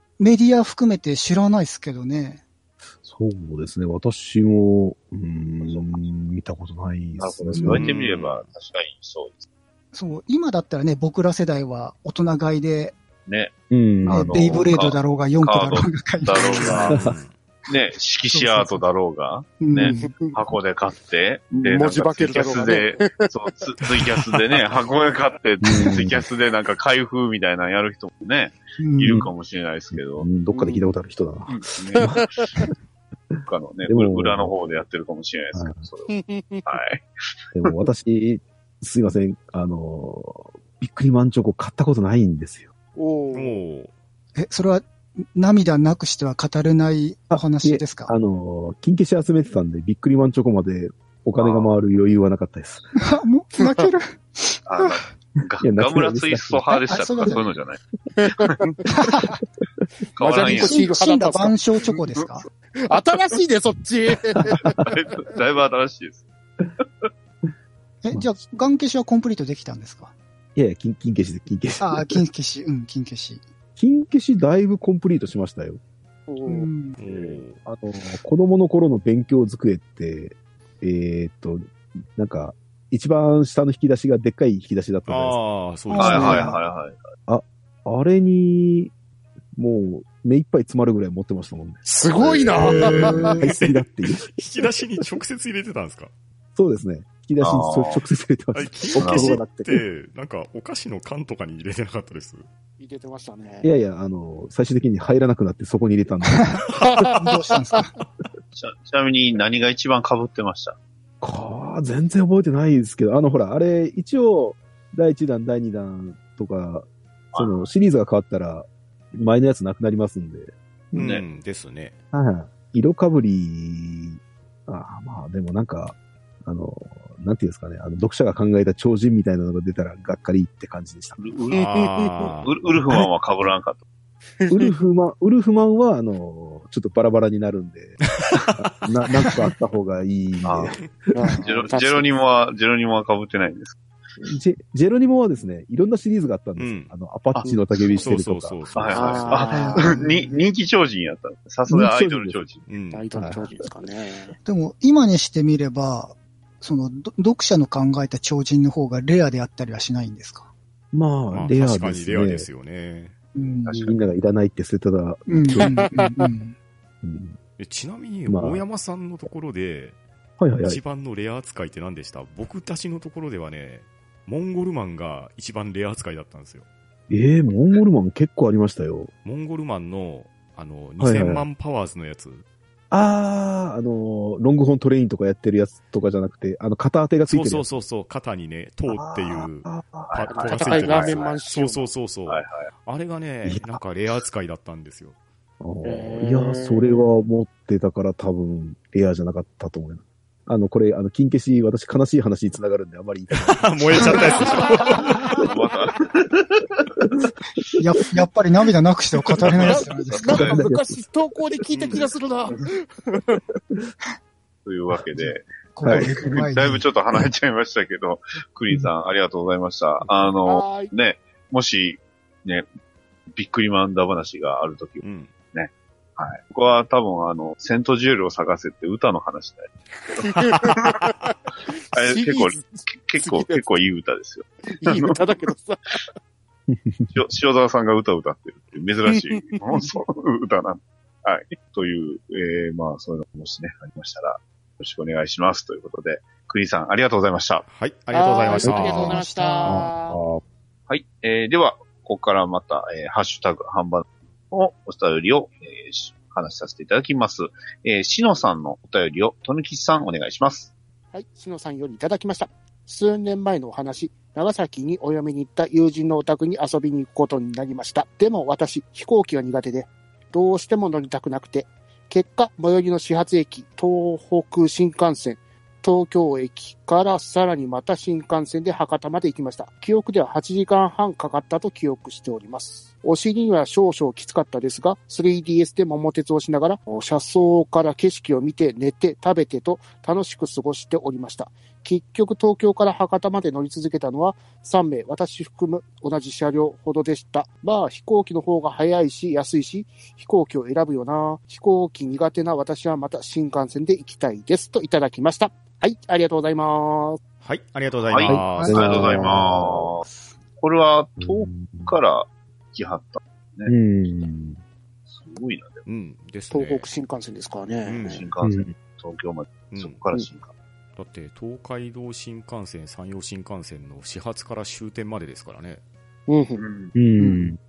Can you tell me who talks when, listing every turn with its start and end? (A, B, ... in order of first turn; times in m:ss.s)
0:00.2-0:02.4 A
0:03.0-0:07.9 B
0:05.6-0:06.0 C
0:07.2-0:09.4 C
0:07.6-0:07.9 A
0:07.7-0:08.4 D
0:09.9-0:13.0 A
0:13.2-0:17.0 C
0:13.7-0:14.4 B
0:14.1-0:17.0 A
0:16.6-0:17.3 D
0:16.9-0:17.2 B
0:17.7-0:30.3 C
0:18.3-0:18.8 A
0:19.6-0:20.2 A
0:19.8-0:20.3 E
0:21.5-0:24.4 E
0:22.2-0:22.9 D
0:25.6-0:26.2 B
0:28.8-0:29.3 A
0:29.9-0:32.2 B
0:30.5-0:30.9 E
0:31.5-0:32.1 C
0:32.0-0:32.7 E
0:33.4-0:36.1 C
0:33.9-0:34.5 B
0:35.5-0:35.9 B
0:36.1-0:36.7 E
0:36.6-0:37.1 C
0:37.5-0:42.7 B
0:43.0-0:43.6 E
0:43.3-0:43.9 D
0:44.4-0:48.1 A
0:47.3-0:52.9 B
0:51.4-0:51.7 C
0:53.0-0:55.0 A
0:53.6-0:53.9 E
0:54.6-0:58.8 C
0:55.6-0:56.9 B
0:56.7-0:57.4 A
0:58.2-0:58.7 E
0:58.8-0:59.4 A
1:00.2-1:00.9 C
1:00.2-1:01.6 E
1:00.2-1:02.5 A
1:02.8-1:04.9 E
1:04.7-1:06.2 C
1:06.8-1:07.1 C
1:08.0-1:10.1 A
1:10.6-1:12.2 B
1:11.8-1:13.4 A
1:13.8-1:15.8 B
1:16.3-1:16.7 E
1:16.5-1:17.0 A
1:17.0-1:17.6 D
1:17.6-1:25.4 B
1:25.1-1:26.5 D
1:25.9-1:26.6 A
1:26.0-1:26.5 B
1:26.0-1:27.1 C
1:27.3-1:28.9 B
1:29.6-1:34.3 B
1:31.8-1:33.5 E
1:32.6-1:36.1 D
1:32.9-1:33.4 A
1:36.5-1:39.8 B
1:37.4-1:38.0 C
1:38.5-1:42.4 D
1:39.0-1:39.4 C
1:42.8-1:43.7 E
1:43.6-1:46.6 B
1:46.4-1:48.0 A
1:46.8-1:47.4 E
1:48.5-1:50.8 C
1:51.2-2:01.1 B
1:57.3-1:57.7 C
2:00.9-2:01.3 C
2:00.9-2:01.9 D
2:02.1-2:11.2 B
2:11.2-2:13.8 C
2:11.5-2:12.1 E
2:11.5-2:12.5 D
2:14.4-2:14.7 E
2:14.5-2:18.1 B
2:18.2-2:18.8 D
2:18.6-2:20.9 B
2:20.4-2:20.8 C
2:21.1-2:22.1 E
2:21.3-2:21.5 A
2:21.3-2:23.8 C
2:24.2-2:29.2 B
2:26.6-2:26.9 D
2:28.0-2:29.5 D
2:28.8-2:32.6 C
2:28.9-2:29.9 E
2:29.5-2:30.4 A
2:31.7-2:32.4 B
2:32.7-2:33.0 D
2:32.9-2:34.4 E
2:33.2-2:33.5 B
2:34.4-2:40.5 A
2:40.9-2:42.5 B
2:41.3-2:43.1 D
2:43.3-2:43.8 A
2:43.6-2:43.9 C
2:43.8-2:45.9 B
2:45.3-2:46.6 A
2:45.6-2:46.2 E
2:47.0-2:47.4 B
2:47.6-2:50.0 D
2:48.3-2:48.6 B
2:50.4-2:50.8 B
2:50.6-2:56.6 D
2:57.1-2:59.1 B
2:59.2-3:02.4 D
3:01.0-3:01.5 B
3:02.9-3:07.7 B
3:07.3-3:15.2 D
3:08.9-3:10.1 B
3:10.1-3:11.4 C
3:10.3-3:11.9 E
3:12.3-3:12.7 C
3:13.4-3:13.8 B
3:15.6-3:24.2 B
3:15.8-3:17.1 E
3:23.4-3:25.3 D
3:24.3-3:24.9 E
3:25.3-3:26.9 C
3:27.8-3:30.5 A
3:29.5-3:30.6 C
3:29.6-3:33.4 E
3:30.3-3:31.0 B
3:31.7-3:32.1 D
3:34.6-3:42.6 C
3:35.7-3:36.8 A
3:35.8-3:36.3 B
3:40.4-3:40.9 E
3:43.3-3:49.7 C
3:45.0-3:45.3 D
3:50.0-3:53.6 E
3:50.2-3:51.1 C
3:51.9-3:55.5 C
3:54.8-3:56.1 E
3:56.7-3:57.2 B
3:57.1-4:07.6 C
3:59.1-3:59.6 E
4:07.7-4:09.2 D
4:08.1-4:10.2 E
4:08.6-4:09.9 A
4:09.6-4:10.4 B
4:10.9-4:20.7 C
4:21.1-5:07.2 E
5:07.4-5:09.1 D
5:08.1-5:10.0 C
5:08.2-5:09.9 B
5:08.5-5:09.2 A
5:10.1-5:10.3 A
5:10.6-5:14.2 C
5:11.2-5:12.0 B
5:13.6-5:14.6 B
5:15.1-5:15.8 C
5:15.8-5:16.9 D
5:16.5-5:18.2 E
5:17.8-5:18.2 D
5:18.1-5:20.5 C
5:18.4-5:18.7 B
5:19.7-5:20.0 D
5:21.0-5:25.8 D
5:26.3-5:26.6 E
5:26.6-5:26.9 C
5:26.9-5:27.6 B
5:27.2-5:27.5 A